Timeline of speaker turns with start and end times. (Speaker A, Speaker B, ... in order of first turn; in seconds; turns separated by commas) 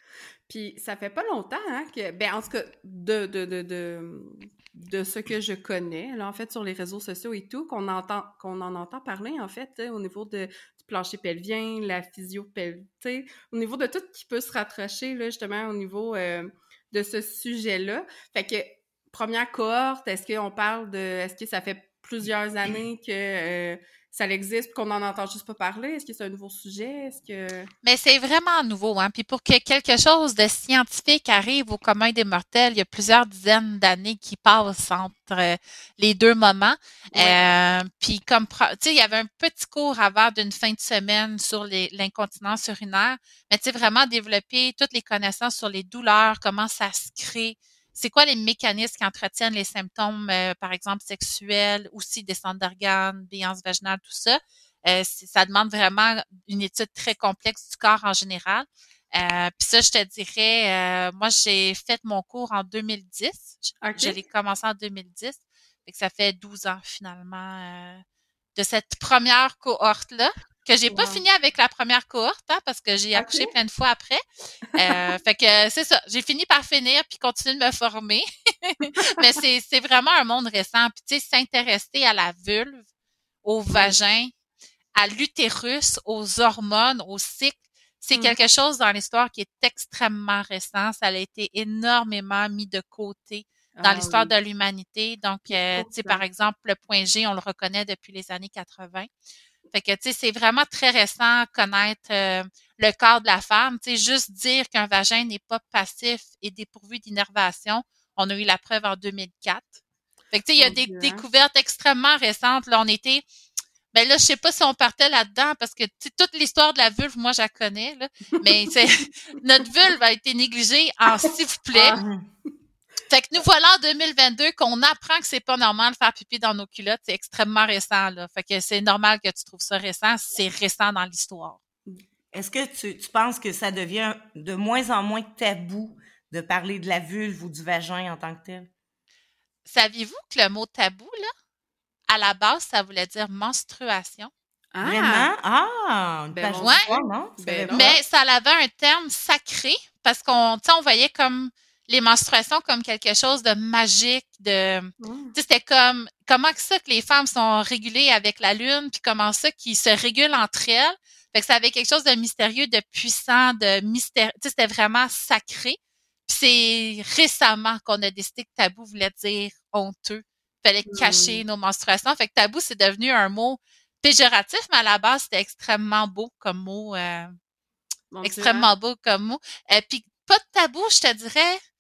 Speaker A: 0.5-27.7, Speaker B: 27.8-68.0, Speaker A: 37.1-37.4, Speaker A: 63.8-64.2, Speaker B: 68.5-74.2, Speaker A: 70.9-71.2, Speaker A: 73.2-73.5, Speaker B: 74.8-82.8, Speaker A: 74.8-75.1, Speaker A: 79.0-79.2, Speaker B: 83.4-84.3, Speaker B: 85.0-99.1, Speaker A: 93.8-94.3, Speaker A: 95.5-96.2, Speaker B: 99.7-109.8, Speaker B: 110.3-113.2, Speaker A: 110.6-111.2, Speaker B: 113.9-122.0, Speaker A: 118.3-119.4, Speaker A: 121.7-122.0, Speaker C: 122.0-122.3, Speaker B: 123.1-131.6, Speaker C: 132.3-138.7, Speaker B: 139.7-141.3, Speaker B: 142.1-144.3, Speaker A: 144.7-145.3, Speaker C: 144.8-147.9, Speaker A: 146.3-146.8, Speaker B: 146.6-146.9, Speaker A: 147.4-148.0, Speaker B: 147.7-177.4, Speaker A: 155.0-155.4, Speaker A: 170.9-171.4, Speaker A: 178.1-178.7, Speaker B: 178.2-181.6